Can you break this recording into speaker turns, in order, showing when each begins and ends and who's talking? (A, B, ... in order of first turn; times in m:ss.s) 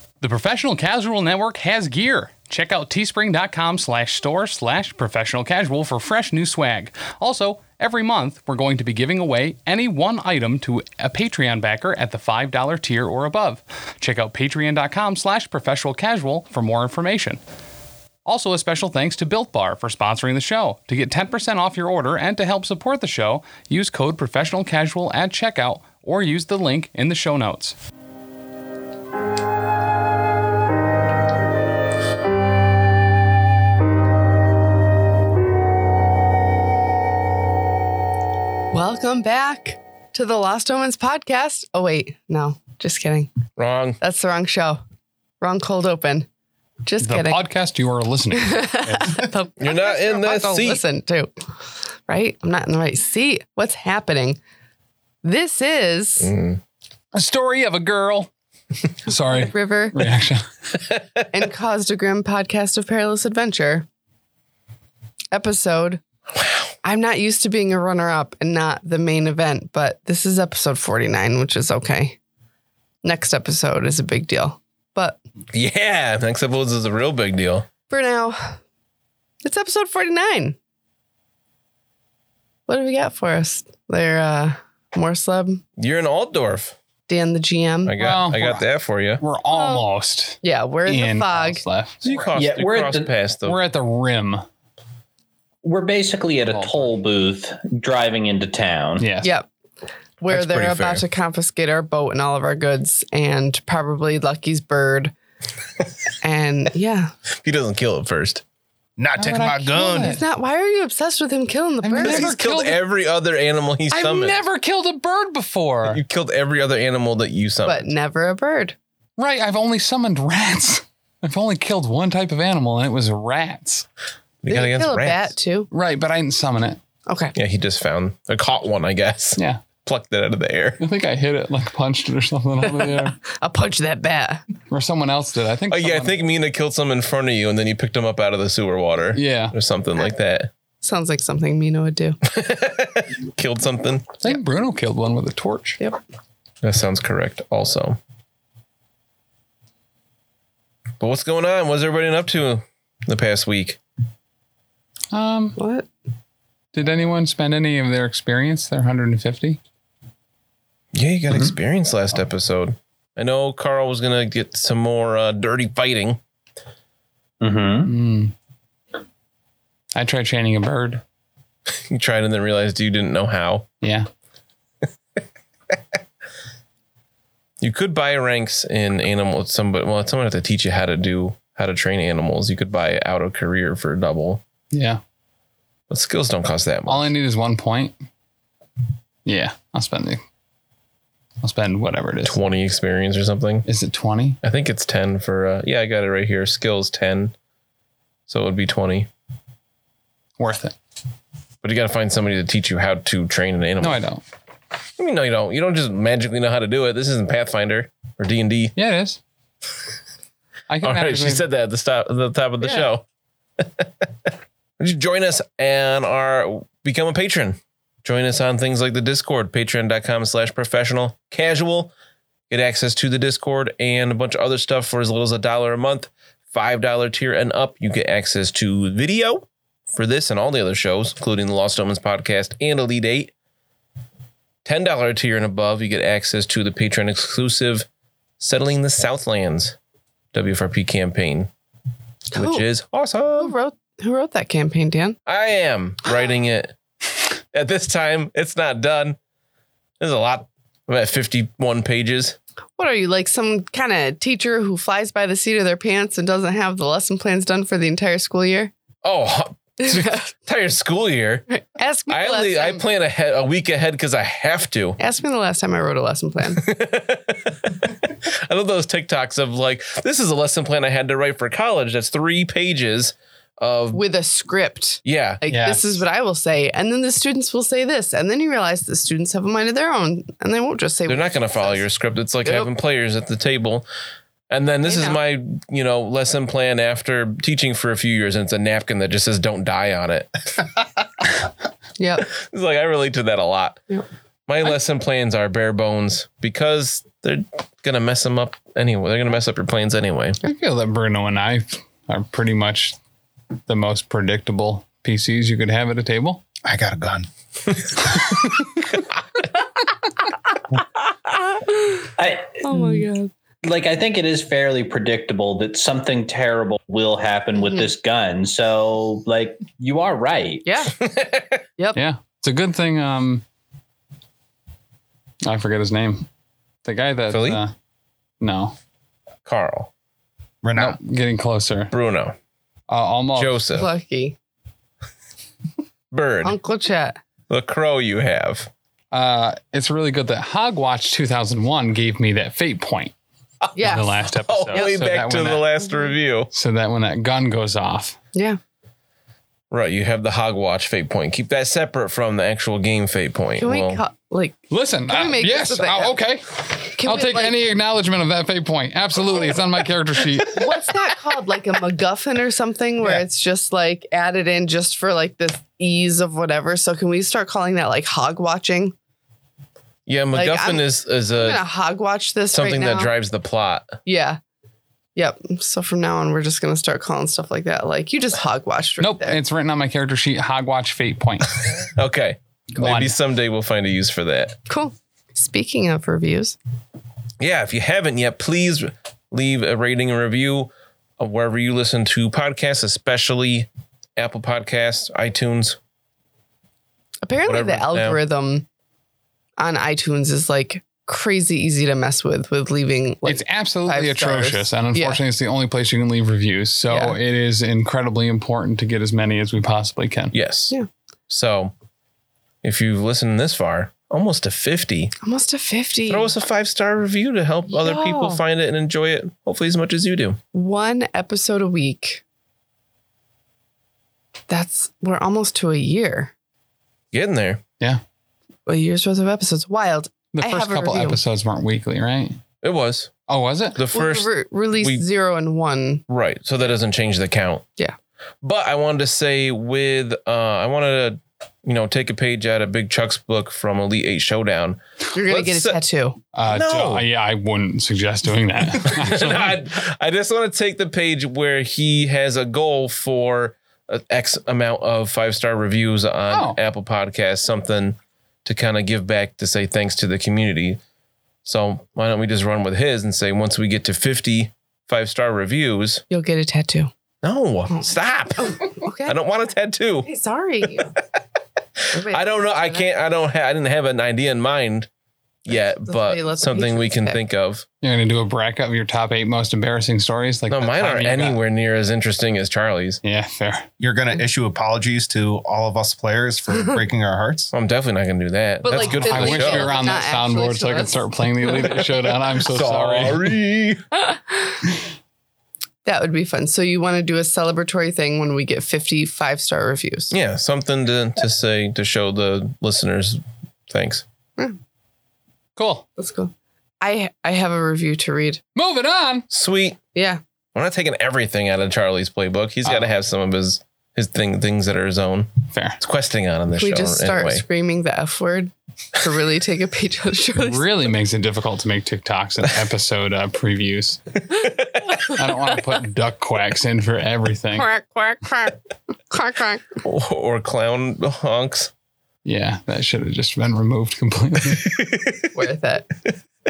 0:00.2-0:17.4 A
0:18.2-0:27.8 A
0:38.7-0:43.3 B
0:43.6-0:44.0 C
0:44.0-0:44.8 B
0:45.4-0:46.3 B
0:46.8-0:47.4 B
0:47.0-0:49.2 A
0:48.3-0:51.3 B
0:49.6-0:50.8 C
0:52.1-0:54.4 B
0:55.2-0:56.3 B
0:56.2-0:56.6 C
0:57.1-0:58.3 A
0:59.1-1:00.5 A
0:59.2-1:00.1 B
1:01.3-1:03.9 B
1:05.3-1:06.0 B
1:06.8-1:12.2 B
1:13.0-1:15.2 B
1:15.5-1:17.7 C
1:17.9-1:18.6 B
1:19.4-1:20.6 B
1:22.7-1:25.6 B
1:25.8-1:26.8 C
1:27.1-1:28.0 B
1:27.8-1:29.2 C
1:28.0-1:28.7 A
1:29.2-1:32.2 A
1:29.5-1:29.9 B
1:30.4-1:31.6 B
1:32.0-1:33.6 C
1:32.4-1:33.1 D
1:33.4-1:34.4 A
1:35.6-1:39.1 D
1:36.5-1:36.9 A
1:39.0-1:39.4 A
1:39.2-1:39.5 B
1:40.2-1:45.1 B
1:40.3-1:41.0 C
1:46.2-1:47.1 B
1:47.4-1:48.4 C
1:49.0-1:50.2 E
1:49.2-1:50.2 A
1:49.8-1:52.3 B
1:51.8-1:52.8 A
1:52.0-1:54.4 C
1:53.9-1:56.0 A
1:55.9-1:57.9 C
1:57.7-1:58.8 B
1:59.2-2:03.9 A
2:04.4-2:05.3 C
2:04.5-2:05.7 B
2:05.7-2:06.8 A
2:07.1-2:07.4 B
2:07.4-2:10.8 C
2:10.8-2:13.2 A
2:12.6-2:14.4 B
2:14.7-2:16.2 A
2:15.7-2:20.5 C
2:19.1-2:19.6 A
2:20.8-2:22.2 B
2:22.3-2:24.2 C
2:24.2-2:25.8 A
2:26.6-2:28.0 C
2:31.0-2:33.8 C
2:35.1-2:35.6 A
2:35.6-2:35.9 B
2:36.7-2:39.6 A
2:40.9-2:46.2 C
2:47.4-2:47.9 D
2:47.8-2:48.3 A
2:50.0-2:51.0 A
2:51.9-2:53.7 C
2:53.8-2:54.1 A
2:57.6-3:04.4 C
3:04.7-3:05.0 A
3:05.9-3:07.1 C
3:06.9-3:08.0 A
3:09.2-3:10.2 A
3:11.4-3:12.4 A
3:12.2-3:13.6 C
3:13.7-3:14.4 A
3:14.4-3:17.3 C
3:18.3-3:19.1 C
3:20.4-3:20.8 A
3:21.6-3:24.0 C
3:23.8-3:24.2 A
3:25.0-3:28.7 C
3:28.8-3:29.2 A
3:30.7-3:31.4 A
3:30.8-3:33.0 C
3:32.6-3:32.9 A
3:33.6-3:34.1 C
3:34.8-3:41.9 C
3:42.5-3:53.3 C
3:54.6-3:57.9 C
3:58.4-3:59.8 C
4:00.3-4:01.5 C
4:02.3-4:02.6 B
4:02.4-4:03.5 C
4:03.4-4:05.2 B
4:05.3-4:06.8 C
4:07.5-4:09.2 C
4:10.0-4:12.4 C
4:12.8-4:18.7 B
4:19.0-4:21.4 C
4:19.8-4:20.2 B
4:21.5-4:22.8 B
4:22.1-4:25.0 C
4:25.0-4:26.7 B
4:26.6-4:34.0 C
4:33.9-4:41.8 B
4:35.0-4:35.4 C
4:35.5-4:36.0 A
4:41.1-4:43.9 C
4:42.4-4:42.7 B
4:44.5-4:50.3 C
4:44.9-4:45.2 B
4:52.0-4:52.3 B
4:52.2-4:53.8 C
4:54.5-5:00.4 C
5:00.4-5:03.0 A
5:03.7-5:06.4 A
5:06.6-5:07.8 E
5:12.2-5:13.0 D
5:12.6-5:13.3 B
5:13.6-5:20.7 D
5:20.6-5:21.0 B
5:21.0-5:21.6 C
5:22.0-5:23.4 A
5:25.4-5:26.3 A
5:26.8-5:27.7 A
5:27.3-5:27.6 C
5:28.4-5:28.8 A
5:29.5-5:29.9 C
5:30.6-5:31.0 E
5:30.8-5:31.9 A
5:31.9-5:32.4 C
5:32.9-5:33.6 A
5:33.4-5:33.9 C
5:33.8-5:34.4 B
5:36.1-5:36.6 C
5:36.4-5:37.2 B
5:37.5-5:38.7 C
5:39.1-5:43.1 A
5:43.8-5:44.2 B
5:43.8-5:45.7 A
5:44.4-5:46.5 C
5:46.5-5:48.2 A
5:48.3-5:48.6 B
5:49.7-5:54.0 C
5:53.6-5:56.2 B
5:54.7-6:00.9 A
5:57.0-5:57.6 B
6:00.5-6:09.0 B
6:10.1-6:11.6 C
6:10.3-6:13.1 B
6:12.5-6:14.0 C
6:14.0-6:14.4 B
6:15.2-6:19.4 B
6:19.0-6:21.6 A
6:21.9-6:24.6 C
6:22.8-6:23.2 A
6:24.7-6:26.6 B
6:27.4-6:35.8 C
6:37.2-6:38.7 B
6:37.4-6:38.2 C
6:39.6-6:45.2 B
6:43.2-6:50.3 A
6:46.9-6:47.2 B
6:50.3-6:50.7 C
6:51.3-6:51.7 C
6:52.6-6:55.1 C
6:55.2-6:56.3 B
6:56.1-7:00.4 C
6:57.7-6:58.4 B
7:00.5-7:02.2 B
7:04.5-7:06.3 B
7:07.1-7:07.6 C
7:08.7-7:11.2 B
7:10.3-7:12.4 A
7:12.6-7:13.2 C
7:13.3-7:13.8 A
7:13.8-7:15.0 C
7:13.9-7:16.0 B
7:16.1-7:17.6 C
7:18.4-7:25.8 C
7:25.1-7:26.2 B
7:26.4-7:29.5 A
7:26.5-7:27.0 C
7:28.8-7:40.8 C
7:36.3-7:36.6 A
7:41.4-7:46.0 C
7:46.1-7:46.9 B
7:47.2-7:50.1 C
7:48.4-7:49.2 B
7:50.0-7:51.0 B
7:51.9-7:52.9 B
7:52.1-7:54.9 C
7:55.4-7:57.7 C
7:55.5-7:57.2 B
7:57.8-8:01.4 A
8:00.5-8:03.0 C
8:03.0-8:03.7 A
8:03.8-8:07.5 E
8:07.5-8:09.7 C
8:08.6-8:11.8 B
8:08.9-8:13.4 A
8:12.4-8:13.8 C
8:14.0-8:14.6 B
8:15.8-8:20.1 B
8:20.1-8:24.0 C
8:25.6-8:25.8 A
8:26.0-8:28.4 B
8:28.6-8:29.3 A
8:29.3-8:29.8 C
8:29.9-8:30.2 B
8:30.6-8:37.4 C
8:35.5-8:35.8 A
8:36.5-8:40.7 B
8:40.4-8:44.2 A
8:45.0-8:47.7 A
8:47.5-8:48.6 B
8:49.1-8:49.7 B
8:49.8-8:51.7 C
8:52.2-8:54.8 A
8:54.6-8:55.3 C
8:55.4-8:55.9 B